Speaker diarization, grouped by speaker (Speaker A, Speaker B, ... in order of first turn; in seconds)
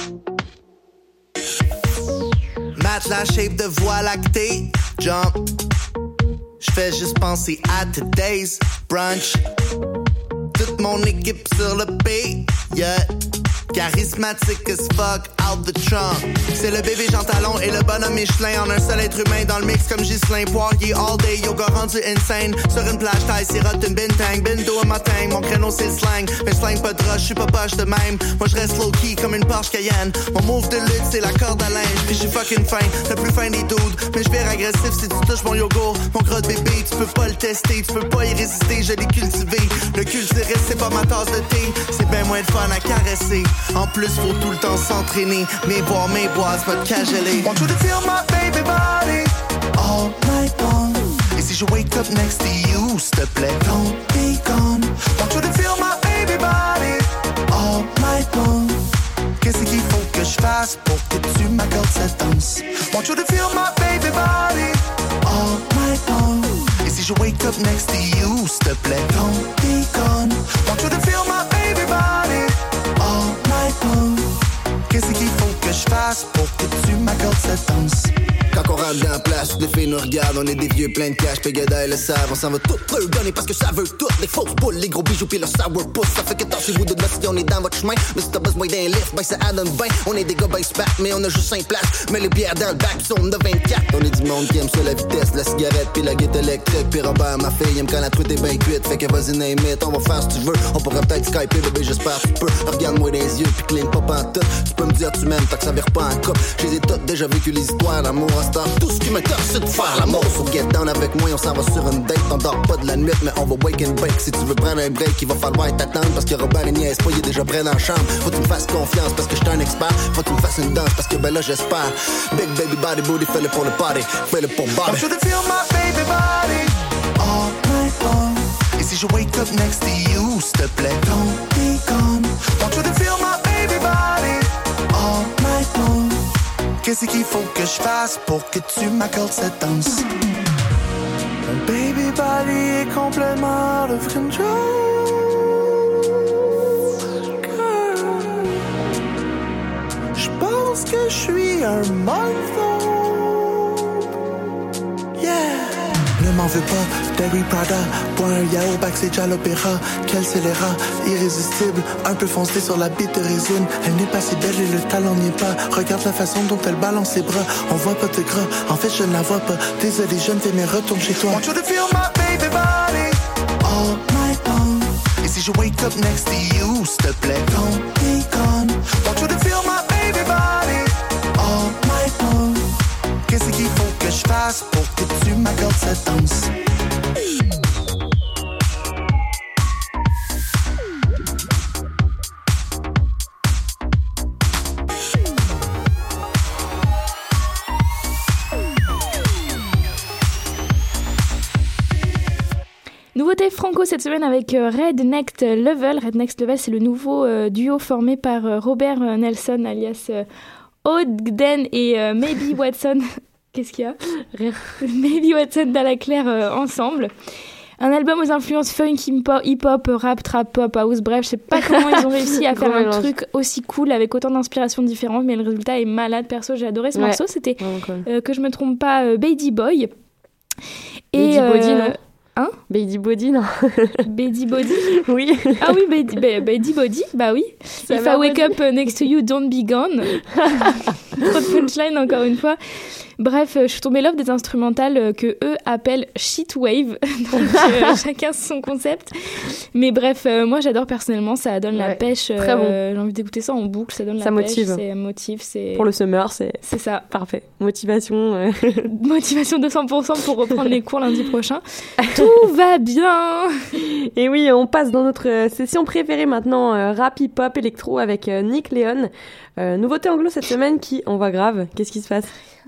Speaker A: 2.8-5.5, 6.6-9.4, 10.5-13.1, 13.7-58.9, 59.4-74.3, 74.9-78.1, 109.8-110.2, 124.8-136.3, 136.8-140.1, 141.4-145.7, 147.4-148.6, 150.2-153.4, 155.2-182.8, 183.3-186.5
Speaker B: 78.5-125.1
Speaker C: 203.2-210.2, 210.8-214.0, 214.8-217.1, 217.8-229.9, 231.1-232.6, 234.1-234.9, 235.6-242.6, 243.2-255.9, 256.6-257.1, 258.9-263.5
Speaker D: 214.2-214.7, 221.6-223.1, 226.9-228.1, 231.2-232.0, 232.7-234.1, 234.8-235.8, 237.9-238.6, 251.8-252.8, 254.2-254.8, 255.8-258.9, 262.0-262.3, 263.8-272.3